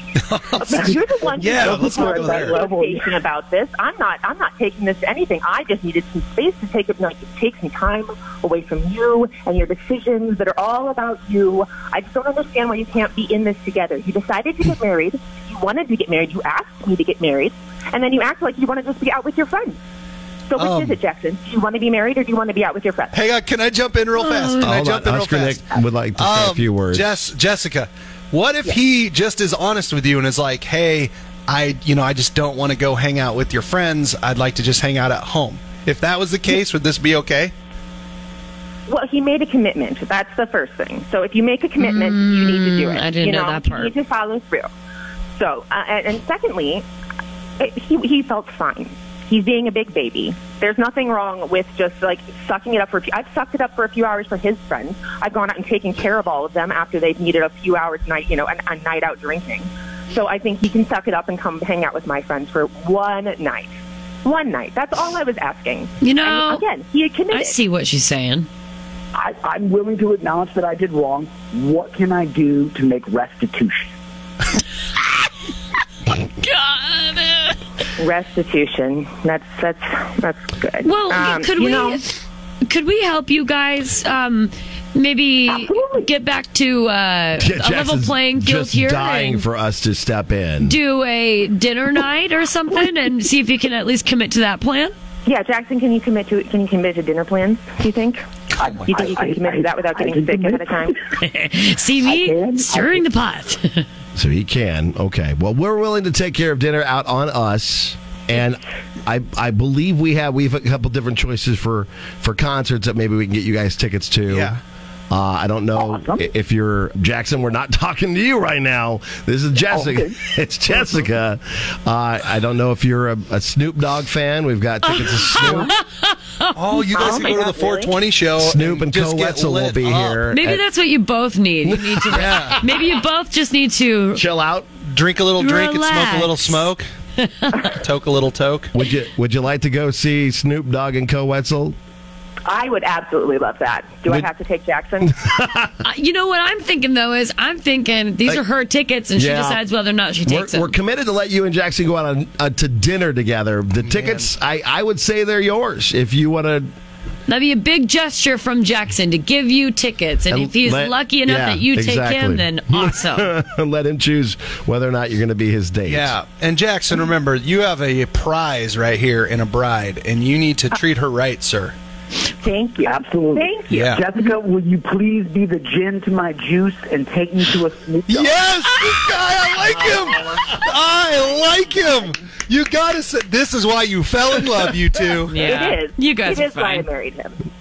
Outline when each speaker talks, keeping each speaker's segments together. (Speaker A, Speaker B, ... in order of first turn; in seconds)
Speaker A: 0.2-0.8, 1.3-2.6, 20.6-21.0, 23.1-25.6, 26.1-37.5, 114.3-114.6, 126.5-130.2, 132.1-132.6, 134.8-136.9, 137.7-138.7, 153.8-154.3, 165.8-171.7, 173.7-174.0, 178.1-185.4
Speaker B: 0.6-19.8, 20.5-23.1, 38.9-44.7, 45.4-46.8, 47.6-67.6, 78.0-82.0, 95.2-98.2, 98.8-101.0, 126.9-128.0, 142.4-145.2, 172.4-174.3, 185.3-187.4
Speaker C: 0.7-3.1, 69.1-73.9, 85.5-86.1, 98.6-100.9, 102.0-103.1, 115.7-116.3, 119.7-120.2, 125.4-125.7, 172.8-178.4
Speaker D: 24.1-24.7, 41.8-43.9, 66.0-66.6, 67.3-68.5, 76.4-77.5, 80.8-82.0, 82.7-89.4, 90.6-94.9, 101.2-103.8, 124.8-127.2, 130.3-134.2, 135.4-136.6, 137.2-137.7, 145.8-150.7, 157.3-163.3, 185.3-186.9
Speaker E: 24.6-27.3, 87.4-90.8, 104.1-114.6, 115.1-125.7, 128.4-130.6, 131.7-132.6, 134.1-134.7, 138.7-141.8, 145.1-145.8, 149.2-149.6, 150.2-156.7, 160.3-166.1